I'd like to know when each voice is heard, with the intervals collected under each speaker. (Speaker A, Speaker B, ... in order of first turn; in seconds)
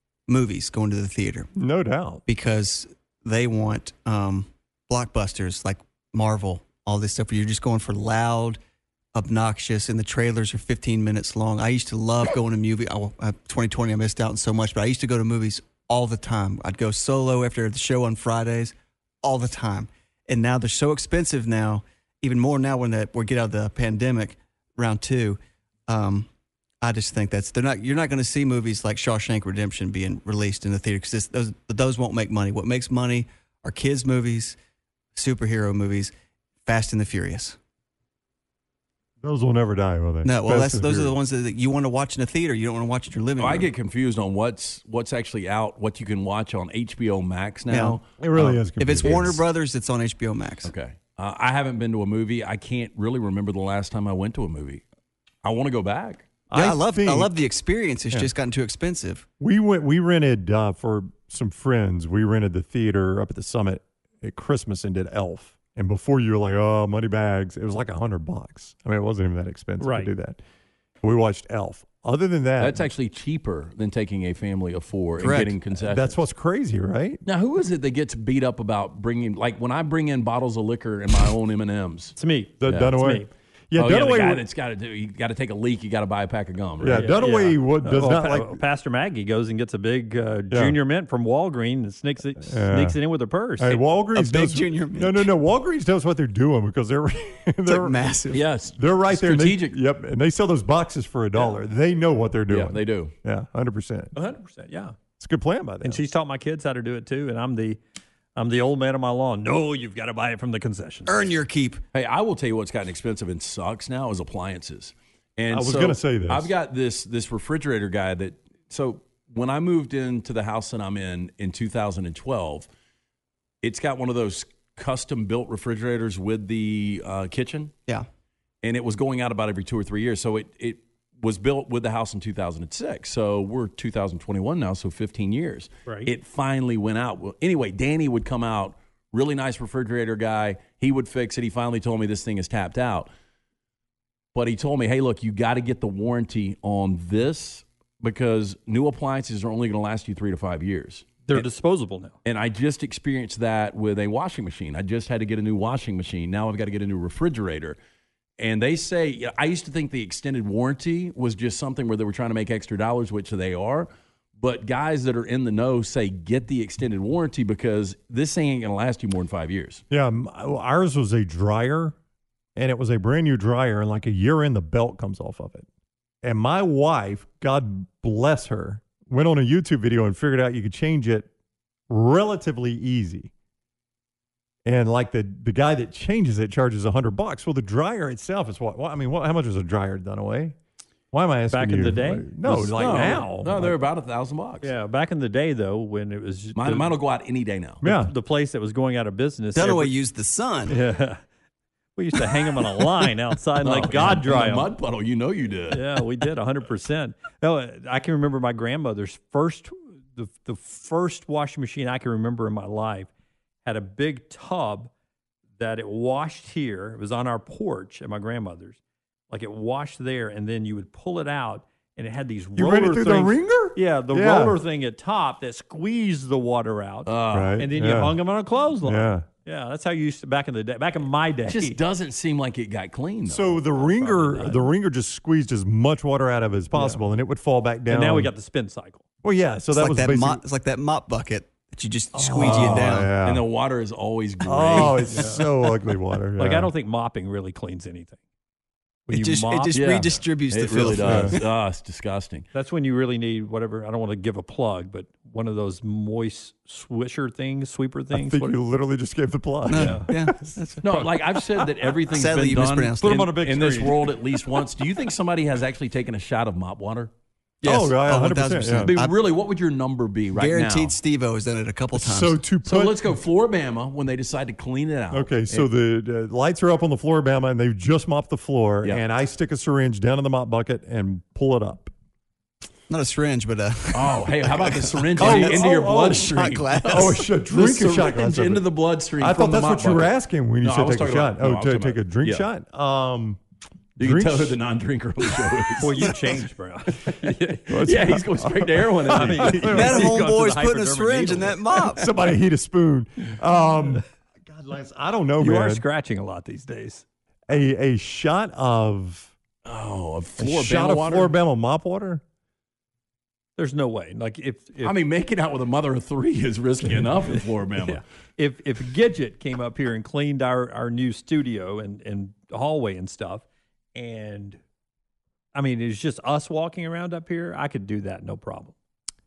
Speaker A: 0.3-1.5, 2.3-8.6, 9.1-26.3, 26.8-34.6, 35.1-36.1, 36.6-37.6, 40.2-43.7, 47.7-48.0, 48.8-50.7, 56.5-59.3, 75.2-75.5, 94.1-95.3, 97.7-98.5, 111.1-111.8, 199.6-200.8, 239.7-243.1, 249.1-251.4, 259.7-261.1, 262.1-263.4, 267.6-269.2, 270.3-272.4, 282.9-287.2, 299.6-302.1
Speaker B: 1.6-2.2, 39.2-41.1, 48.2-49.4, 56.5-57.3, 59.4-70.4, 71.0-72.9, 75.8-77.2, 82.6-84.5, 86.8-88.6, 90.5-90.8, 92.4-93.0, 93.6-104.1, 105.2-106.0, 115.5-116.5, 169.9-172.0, 172.6-175.7, 176.2-181.3, 181.9-183.3, 184.6-190.6, 191.1-193.8, 197.8-198.1, 222.6-224.6, 227.3-228.2, 228.8-229.3, 233.3-238.3, 239.2-240.4, 242.1-243.4, 244.4-246.7, 251.0-251.4, 258.1-260.6, 263.5-263.9, 267.6-268.9, 271.9-273.1, 275.1-281.9, 285.2-288.7, 289.2-293.4, 294.0-294.6, 297.7-300.2, 301.9-305.8, 307.5-309.3, 310.4-312.2
Speaker C: 43.4-49.3, 50.6-54.8, 55.4-56.3, 72.6-76.2, 77.2-82.2, 83.8-87.2, 98.3-99.8, 102.5-103.1, 111.9-122.7, 123.6-127.7, 128.6-143.1, 144.3-151.5, 152.2-157.8, 158.4-169.8, 192.5-194.7, 196.6-197.8, 203.6-206.0, 227.1-227.6, 231.5-233.6, 242.4-245.3, 249.7-252.5, 260.8-267.1, 268.8-271.0, 272.6-275.7, 283.9-292.5, 294.0-296.1, 297.7-300.0, 309.6-311.3, 314.8-318.0
Speaker D: 69.8-70.1, 82.2-83.3, 86.9-93.8, 104.1-105.0, 105.8-107.8, 108.4-111.3, 151.3-152.1, 191.5-193.5, 194.6-196.9, 197.8-199.9, 200.7-201.2, 201.9-204.7, 205.7-213.1, 213.6-214.9, 215.6-218.8, 219.3-231.8, 233.8-234.7, 236.7-237.0, 237.9-239.0, 245.1-245.4, 246.4-248.2, 249.1-249.8, 252.5-258.6, 259.7-260.1, 263.1-263.9, 295.8-297.9, 299.1-301.8, 305.4-307.0, 313.6-314.9, 317.8-324.6, 325.5-328.7